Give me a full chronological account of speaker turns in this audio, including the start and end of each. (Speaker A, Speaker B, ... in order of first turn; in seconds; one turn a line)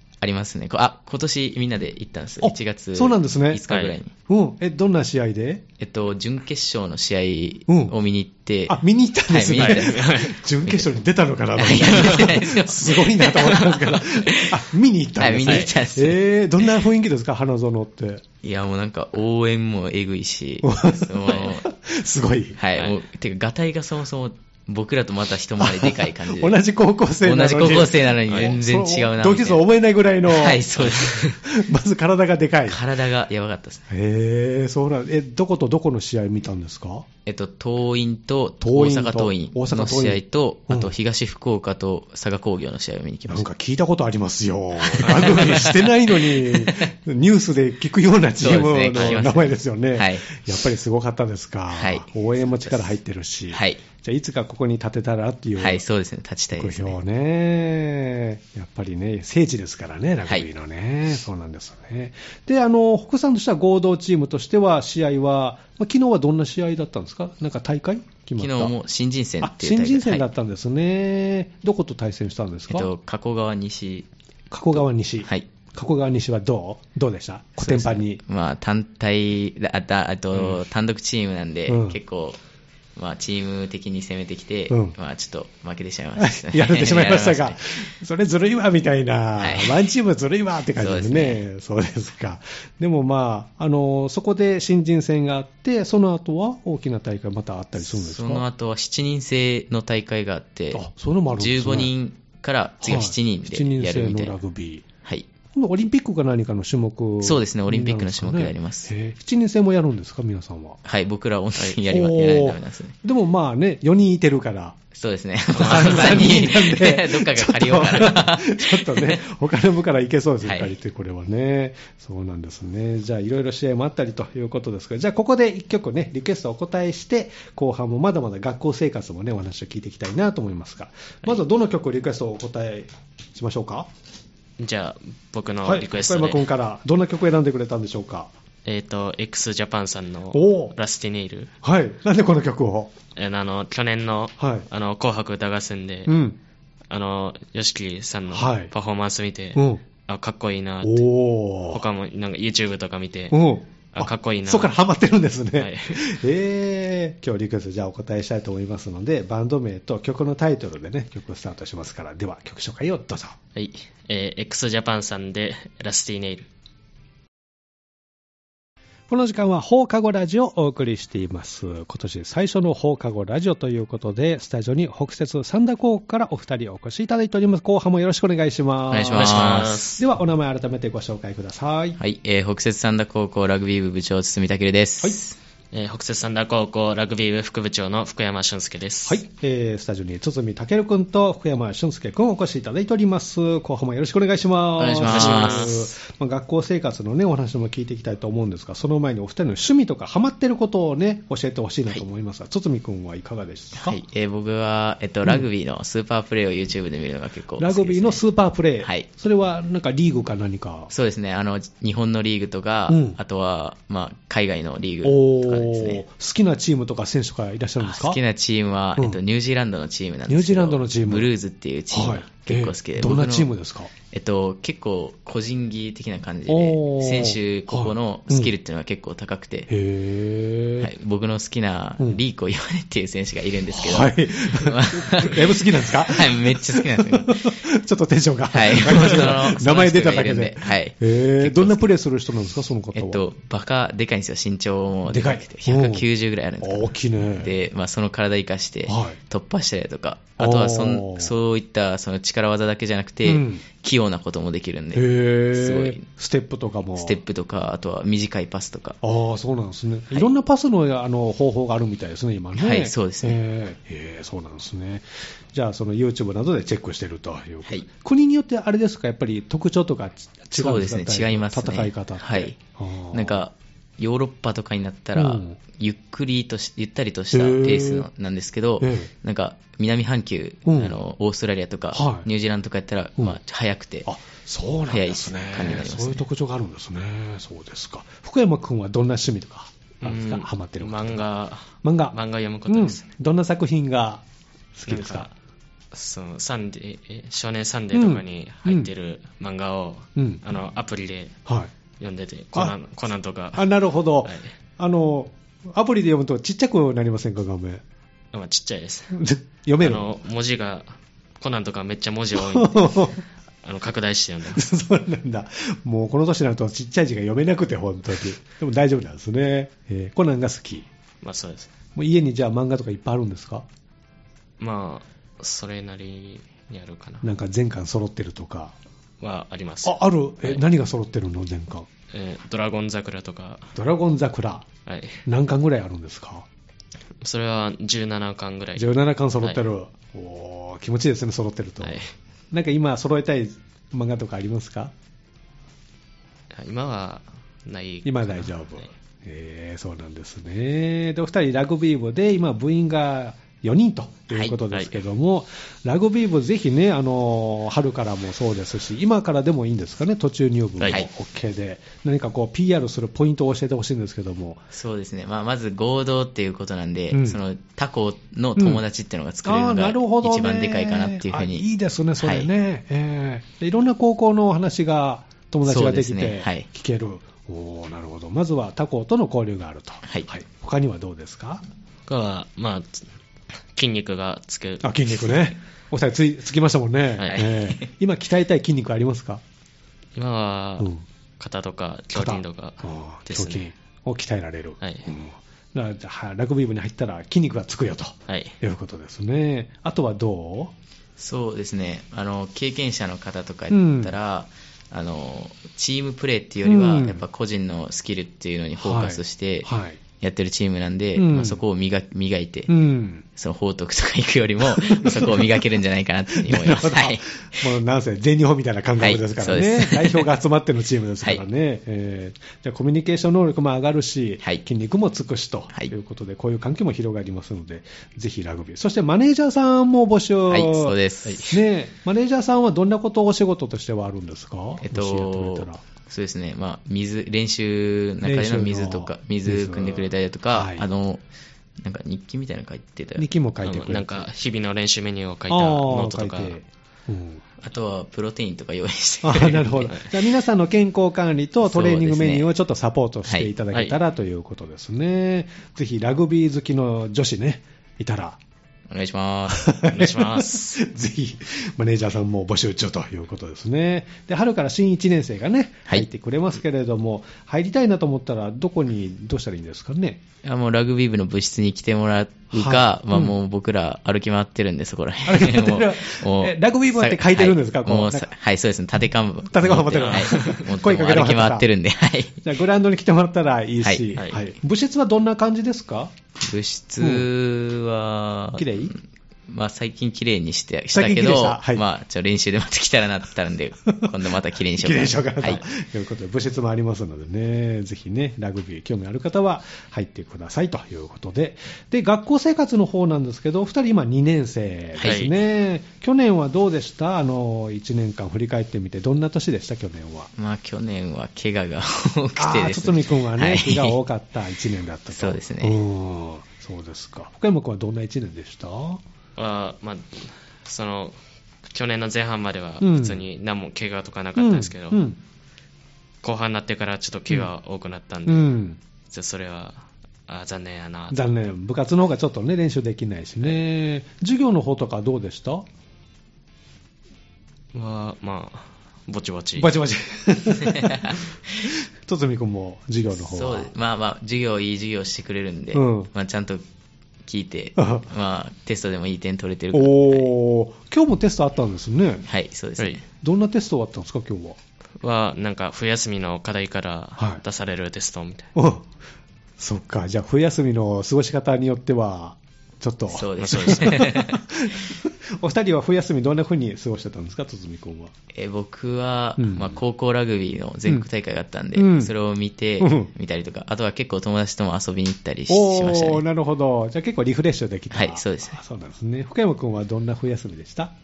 Speaker A: 0.2-4.1
Speaker B: 2.4-3.6
Speaker C: 3.7-4.0
Speaker B: 4.3-5.6
Speaker A: 5.8-10.9
Speaker B: 7.7-8.0
Speaker B: 8.7-18.2
Speaker C: 9.6-10.3
Speaker A: 11.6-14.6
Speaker A: 15.2-16.2
Speaker A: 18.4-21.7
Speaker B: 20.6-22.6
Speaker A: 22.6-26.6
Speaker B: 25.6-32.8
Speaker A: 27.2-29.6
Speaker A: 30.3-31.4
Speaker A: 32.7-33.9
Speaker B: 33.9-37.1
Speaker A: 37.3-43.5
Speaker B: 38.6-40.9
Speaker B: 43.3-55.8
Speaker A: 44.8-46.9
Speaker A: 48.4-50.3
Speaker A: 51.7-52.9
Speaker A: 53.5-53.8
Speaker A: 55.6-57.0
Speaker B: 56.5-68.8
Speaker A: 68.4-70.3
Speaker B: 69.4-72.9
Speaker A: 72.7-74.1
Speaker B: 74.5-78.2
Speaker A: 77.6-82.4
Speaker B: 81.7-82.0
Speaker A: 83.0-87.7
Speaker B: 84.7-85.0
Speaker B: 86.2-98.5
Speaker A: 89.4-89.8
Speaker A: 90.8-91.4
Speaker A: 97.8-100.8
Speaker B: 100.7-101.9
Speaker A: 101.4-104.4
Speaker B: 102.8-104.9
Speaker B: 105.5-110.8
Speaker A: 107.2-108.9
Speaker A: 110.8-113.0
Speaker B: 111.8-114.8
Speaker A: 114.9-119.2
Speaker B: 115.5-133.9
Speaker C: 115.6-116.4
Speaker A: 120.4-120.7
Speaker C: 134.6-136.5
Speaker B: 135.6-138.3
Speaker C: 138.7-141.5
Speaker B: 140.3-140.7
Speaker B: 141.6-142.9
Speaker C: 143.2-146.1
Speaker B: 144.4-144.7
Speaker B: 146.1-146.4
Speaker C: 146.9-151.1
Speaker B: 148.3-148.7
Speaker B: 149.6-149.8
Speaker B: 150.8-151.8
Speaker C: 151.7-153.4
Speaker B: 153.3-163.4
Speaker C: 153.9-154.8
Speaker C: 155.6-156.1
Speaker C: 163.6-166.5
Speaker B: 169.1-182.0
Speaker A: 178.9-179.9
Speaker C: 179.1-180.0
Speaker A: 182.0-185.4
Speaker C: 185.7-189.2
Speaker B: 189.1-204.0
Speaker A: 194.8-195.7
Speaker C: 195.0-195.9
Speaker A: 203.8-208.2
Speaker B: 207.6-210.9
Speaker A: 208.8-209.1
Speaker A: 210.9-216.0
Speaker B: 212.9-213.2
Speaker B: 215.0-218.2
Speaker A: 217.8-223.5
Speaker B: 220.3-221.3
Speaker B: 221.9-223.9
Speaker A: 224.1-229.7
Speaker B: 226.5-228.5
Speaker B: 229.7-230.9
Speaker A: 230.8-237.5
Speaker B: 233.7-243.2
Speaker A: 238.5-241.9
Speaker A: 242.9-256.1
Speaker B: 245.1-246.1
Speaker B: 246.6-247.5
Speaker B: 248.9-249.2
Speaker B: 250.4-251.3
Speaker B: 253.2-253.6
Speaker B: 254.9-257.2
Speaker A: 257.0-259.0
Speaker B: 259.0-273.4
Speaker A: 262.6-263.4
Speaker A: 270.5-272.6
Speaker A: 273.1-284.1
Speaker B: 275.2-275.6
Speaker B: 277.3-278.1
Speaker B: 278.8-279.1
Speaker B: 280.7-281.0
Speaker B: 281.9-282.3
Speaker B: 284.1-291.2
Speaker A: 284.9-286.2
Speaker C: 290.0-293.1
Speaker B: 291.8-292.2
Speaker B: 292.7-294.2
Speaker B: 294.8-295.3
Speaker C: 294.9-295.3
Speaker C: 295.9-301.4
Speaker B: 297.9-298.9
Speaker B: 300.2-300.4
Speaker B: 301.5-301.7
Speaker C: 302.0-303.7
Speaker B: 303.5-307.8
Speaker C: 304.2-304.5
Speaker C: 308.3-309.1
Speaker B: 309.1-310.1
Speaker C: 309.8-313.1
Speaker B: 312.3-313.2
Speaker C: 313.6-314.6
Speaker B: 314.5-320.9
Speaker C: 321.2-321.7
Speaker B: 321.9-323.7
Speaker C: 324.6-327.2
Speaker B: 327.2-328.7
Speaker C: 329.2-330.6
Speaker B: 329.8-331.9
Speaker C: 332.1-333.7
Speaker B: 333.8-334.7
Speaker C: 334.9-335.2
Speaker B: 335.3-336.5
Speaker C: 337.2-338.9
Speaker B: 338.8-342.0
Speaker C: 341.8-342.1
Speaker B: 342.5-344.9
Speaker C: 346.5-348.9
Speaker B: 348.1-364.6
Speaker C: 354.7-355.0
Speaker A: 364.7-371.6
Speaker B: 367.1-367.4
Speaker B: 368.6-368.8
Speaker B: 369.4-381.6
Speaker A: 372.2-372.5
Speaker A: 375.6-376.7
Speaker A: 380.0-380.3
Speaker C: 382.1-383.1
Speaker C: 383.8-384.9
Speaker B: 384.8-389.4
Speaker C: 387.2-387.5
Speaker C: 390.2-393.7
Speaker B: 390.8-391.0
Speaker B: 392.1-400.7
Speaker C: 394.8-395.1
Speaker C: 398.3-398.6
Speaker A: 401.2-412.7
Speaker B: 403.7-404.1
Speaker B: 406.6-407.2
Speaker B: 408.8-410.0
Speaker B: 411.2-411.6
Speaker B: 412.7-413.2
Speaker A: 413.4-417.2
Speaker B: 414.6-415.7
Speaker B: 416.3-435.8
Speaker A: 419.0-420.3
Speaker A: 430.5-431.4
Speaker C: 431.3-431.6
Speaker A: 434.8-441.2
Speaker B: 438.2-440.9
Speaker A: 441.8-443.3
Speaker B: 443.2-444.3
Speaker C: 443.6-446.6
Speaker B: 445.5-447.4
Speaker A: 447.6-449.9
Speaker B: 449.2-458.4
Speaker A: 451.6-452.5
Speaker A: 453.2-453.5
Speaker C: 453.7-454.0
Speaker A: 458.9-459.7
Speaker B: 459.5-470.2
Speaker C: 459.9-460.8
Speaker A: 470.4-482.4
Speaker B: 472.5-473.4
Speaker B: 475.3-478.3
Speaker B: 479.5-481.7
Speaker C: 480.0-480.6
Speaker B: 482.4-486.1
Speaker A: 483.8-484.1
Speaker C: 484.1-484.4
Speaker A: 486.4-495.6
Speaker B: 487.0-487.3
Speaker B: 488.6-488.9
Speaker B: 490.9-491.8
Speaker B: 493.9-494.1
Speaker B: 494.7-510.3
Speaker A: 505.0-505.3
Speaker C: 505.0-505.3
Speaker A: 510.4-514.0
Speaker B: 512.4-519.0
Speaker A: 515.1-515.8
Speaker C: 519.4-525.0
Speaker B: 522.8-523.2
Speaker B: 524.4-525.2
Speaker C: 526.2-528.5
Speaker B: 528.3-528.8
Speaker C: 529.1-531.2
Speaker B: 531.1-535.7
Speaker C: 537.7-539.7
Speaker B: 539.6-541.2
Speaker A: 540.7-541.2
Speaker B: 542.0-543.7
Speaker A: 543.1-546.6
Speaker B: 545.7-546.1
Speaker A: 547.2-550.3
Speaker B: 547.8-548.1
Speaker B: 549.7-552.3
Speaker A: 552.3-553.0
Speaker B: 553.2-554.6
Speaker C: 555.0-558.5
Speaker B: 558.5-558.9
Speaker B: 559.6-568.1
Speaker A: 563.1-564.4
Speaker C: 563.4-564.1
Speaker A: 568.3-576.2
Speaker B: 569.4-569.8
Speaker B: 571.8-572.1
Speaker B: 572.8-573.1
Speaker B: 575.5-580.9
Speaker A: 577.9-578.6